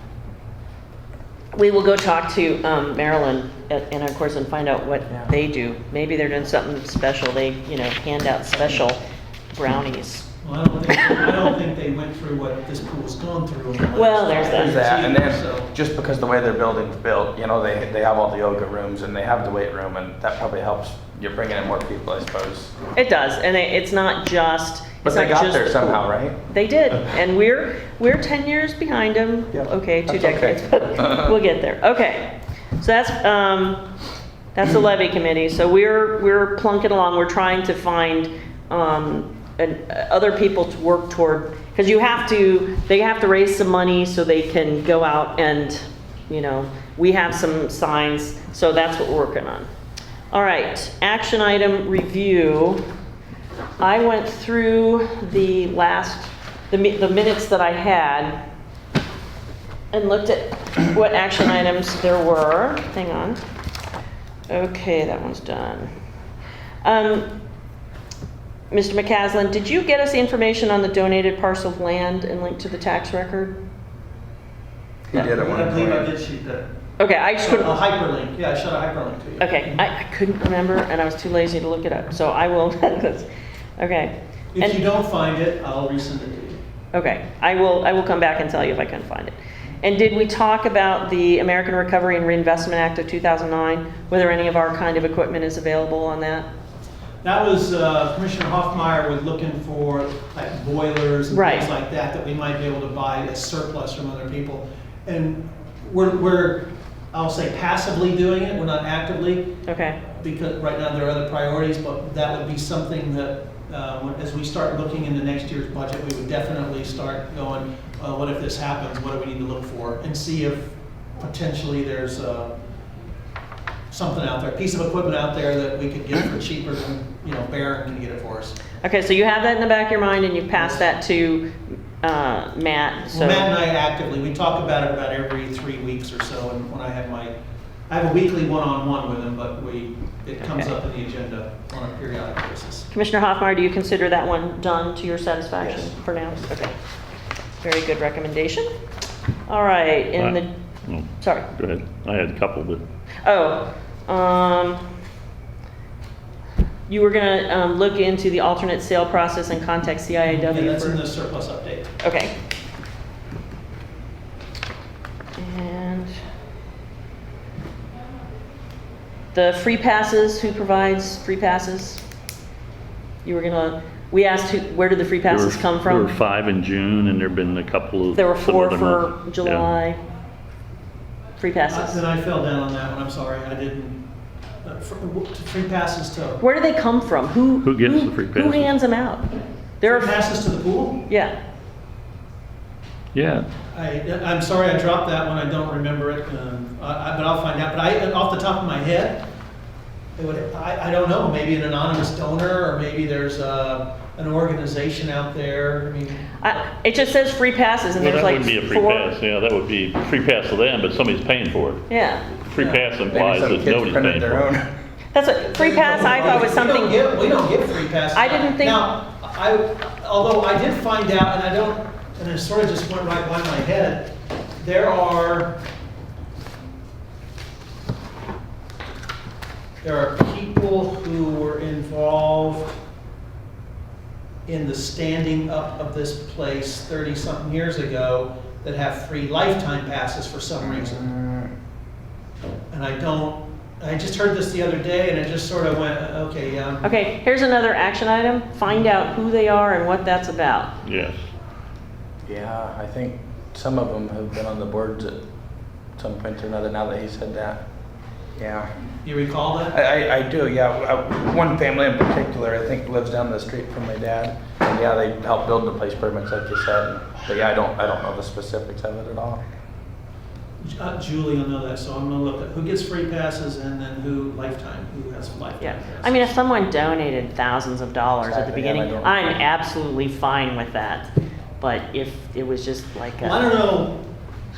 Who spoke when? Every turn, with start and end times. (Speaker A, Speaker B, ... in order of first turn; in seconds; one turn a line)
Speaker A: 1.5-9.0
Speaker A: 9.5-10.3
Speaker B: 10.4-15.7
Speaker A: 10.9-11.3
Speaker A: 13.9-14.8
Speaker C: 14.4-22.7
Speaker A: 22.9-33.9
Speaker C: 25.0-26.4
Speaker C: 29.5-31.4
Speaker A: 34.5-49.7
Speaker A: 50.3-52.8
Speaker A: 53.8-58.4
Speaker A: 59.9-63.4
Speaker A: 64.5-65.9
Speaker A: 66.8-67.3
Speaker A: 68.7-73.6
Speaker C: 75.1-76.1
Speaker B: 75.1-76.7
Speaker A: 77.0-77.7
Speaker B: 77.4-79.8
Speaker A: 79.4-83.2
Speaker A: 83.8-84.8
Speaker B: 84.5-86.6
Speaker A: 86.9-96.5
Speaker B: 97.2-109.5
Speaker A: 101.3-101.7
Speaker A: 109.7-110.0
Speaker B: 110.0-122.5
Speaker B: 123.9-128.6
Speaker A: 128.8-133.5
Speaker B: 130.6-130.9
Speaker B: 133.1-137.3
Speaker B: 137.9-142.9
Speaker A: 140.4-140.7
Speaker A: 142.9-146.8
Speaker C: 145.6-145.9
Speaker A: 147.6-148.7
Speaker A: 149.5-150.5
Speaker D: 150.2-152.8
Speaker A: 151.2-151.5
Speaker A: 153.2-154.8
Speaker A: 156.9-161.0
Speaker B: 160.3-161.9
Speaker A: 162.0-162.3
Speaker A: 165.4-166.1
Speaker A: 169.3-172.0
Speaker A: 173.2-176.1
Speaker D: 175.3-179.7
Speaker A: 178.1-180.0
Speaker A: 181.4-182.0
Speaker B: 181.7-184.0
Speaker B: 184.6-186.4
Speaker A: 186.4-190.2
Speaker D: 187.6-188.7
Speaker B: 189.8-191.0
Speaker A: 191.1-191.3
Speaker D: 193.1-193.5
Speaker B: 193.7-199.2
Speaker B: 200.2-206.5
Speaker A: 206.4-209.1
Speaker D: 208.0-211.8
Speaker A: 211.9-212.3
Speaker D: 212.4-214.4
Speaker B: 212.6-212.8
Speaker C: 213.1-214.7
Speaker A: 215.1-217.0
Speaker B: 215.4-225.6
Speaker A: 218.1-218.9
Speaker B: 229.8-232.7
Speaker B: 234.4-241.1
Speaker C: 240.8-241.4
Speaker B: 242.7-246.8
Speaker A: 246.8-250.7
Speaker D: 250.8-251.2
Speaker C: 252.2-255.2
Speaker C: 256.0-257.6
Speaker C: 258.4-258.7
Speaker B: 259.0-259.8
Speaker C: 259.7-269.4
Speaker B: 270.6-276.4
Speaker A: 275.6-281.1
Speaker C: 278.2-279.3
Speaker A: 281.6-283.5
Speaker B: 283.2-284.0